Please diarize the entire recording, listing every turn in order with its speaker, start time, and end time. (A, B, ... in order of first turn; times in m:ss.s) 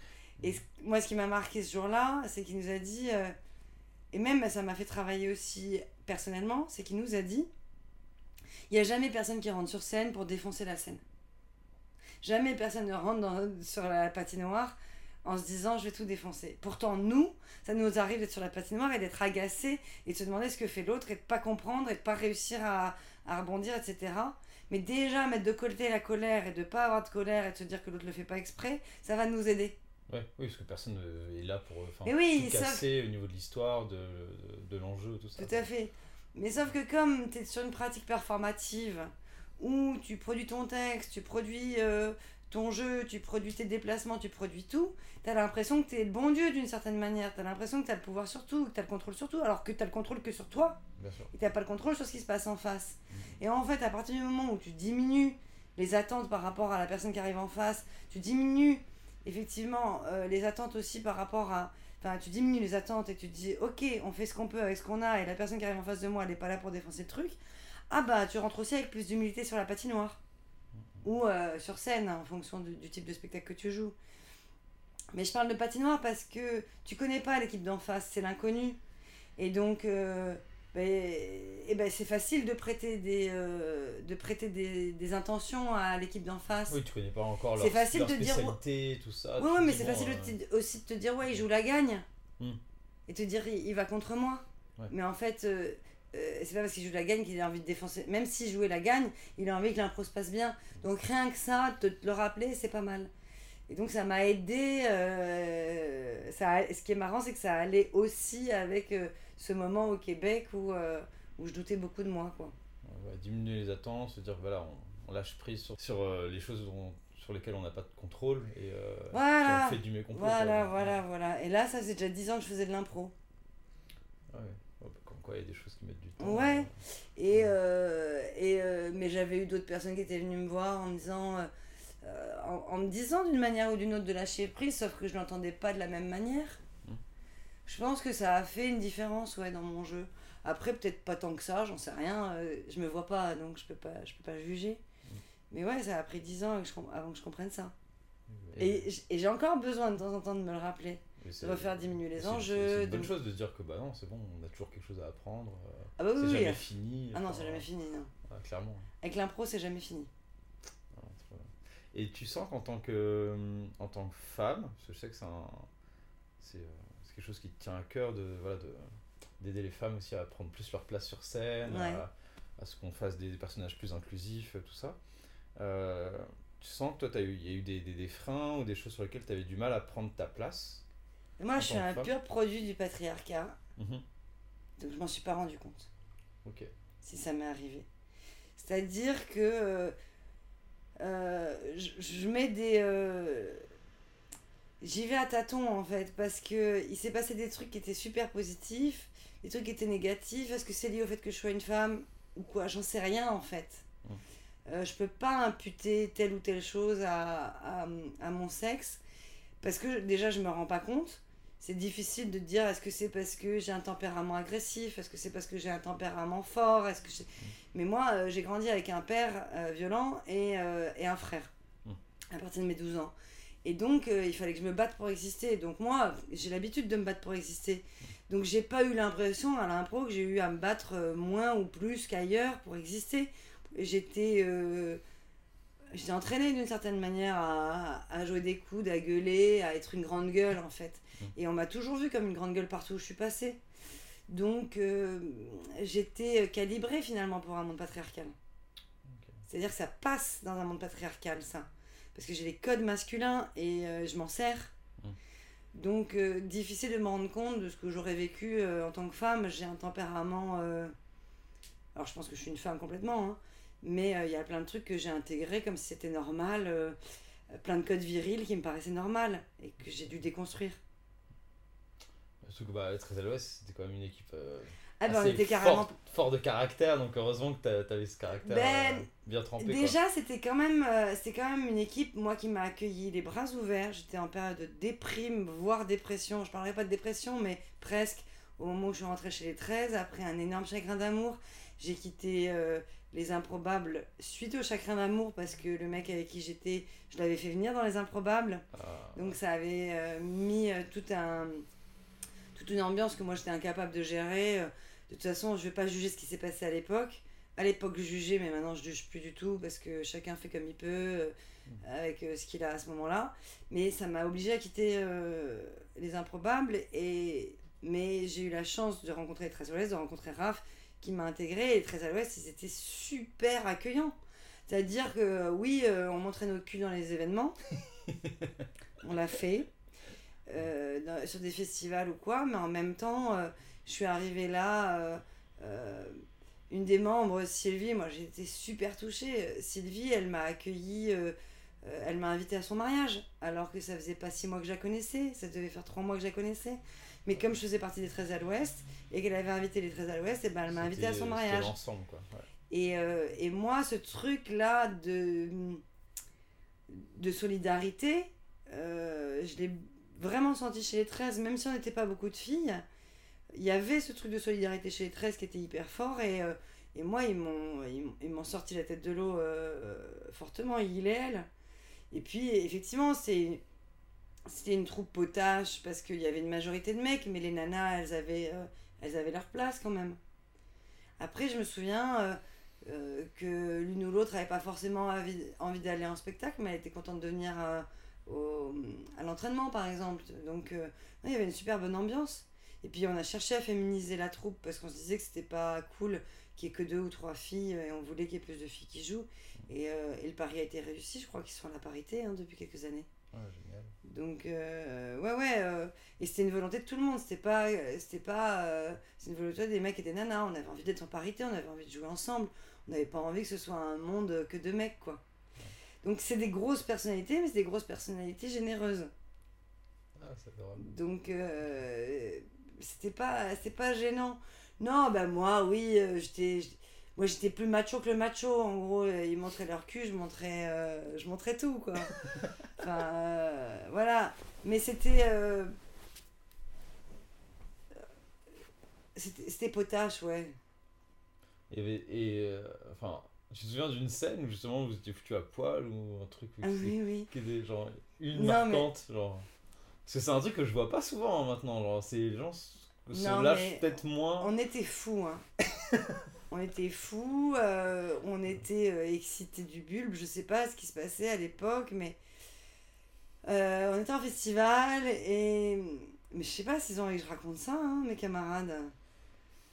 0:00.4-0:03.4 A
0:04.1-0:07.5 A
0:08.7-0:11.0 A
0:12.2-0:29.8 A
0:30.1-0:35.7 B
0:32.0-0:32.8 A
0:35.4-0:50.8 A
0:51.0-0:51.3 B
0:51.3-1:07.4 A
1:07.9-1:10.2 A
1:10.8-1:11.0 B
1:11.0-1:14.0 A
1:15.1-1:18.8 A
1:19.4-1:26.8 A
1:26.7-1:30.4 B
1:27.6-1:28.6 A
1:29.4-1:32.1 A
1:33.1-1:43.1 A
1:43.7-1:52.6 A
1:52.8-2:01.0 B
1:59.1-2:03.1 A
2:04.3-2:06.7 B
2:06.2-2:11.5 A
2:12.0-2:16.6 A
2:17.7-2:24.8 A
2:25.5-2:27.7 A
2:28.3-2:28.9 B
2:28.6-2:33.1 A
2:31.2-2:37.7 B
2:36.0-2:38.1 A
2:38.2-2:38.9 B
2:39.0-2:40.1 A
2:40.9-2:45.7 B
2:46.4-2:48.9 B
2:49.4-2:55.0 B
2:51.7-2:52.0 A
2:55.6-3:00.8 B
3:01.4-3:03.6 A
3:01.6-3:02.1 B
3:03.8-3:04.0 B
3:04.8-3:05.9 A
3:06.4-3:06.7 B
3:07.0-3:07.9 A
3:08.6-3:10.0 A
3:11.0-3:13.6 A
3:14.8-3:23.9 A
3:24.7-3:29.0 A
3:29.6-3:41.5 A
3:42.3-3:55.0 A
3:55.9-4:03.6 A
4:04.3-4:08.4 A
4:09.0-4:09.4 B
4:09.5-4:14.7 A
4:15.8-4:20.9 A
4:22.0-4:27.0 A
4:27.5-4:30.8 A
4:32.4-4:40.0 B
4:35.0-4:36.0 A
4:38.4-4:39.1 A
4:39.6-4:58.6 A
4:58.7-4:59.4 B
4:59.2-5:01.7 A
5:02.5-5:24.2 A
5:24.7-5:27.6 A
5:28.2-5:28.5 B
5:29.0-5:29.7 A
5:30.5-5:51.7 A
5:50.7-5:52.5 B
5:52.7-5:55.8 A
5:56.9-6:02.8 A
6:03.5-6:11.5 A
6:12.1-6:13.6 A
6:14.5-6:20.2 A
6:21.2-6:43.1 A
6:43.3-6:44.0 B
6:44.0-6:55.2 A
6:56.0-6:59.1 A
7:00.2-7:00.8 B
7:00.8-7:12.2 A
7:12.8-7:15.7 A
7:19.2-7:20.6 A
7:21.7-7:29.4 B
7:26.6-7:27.3 A
7:28.3-7:28.9 A
7:30.1-7:34.5 B
7:33.1-7:35.4 A
7:36.5-7:42.2 A
7:43.4-7:49.0 A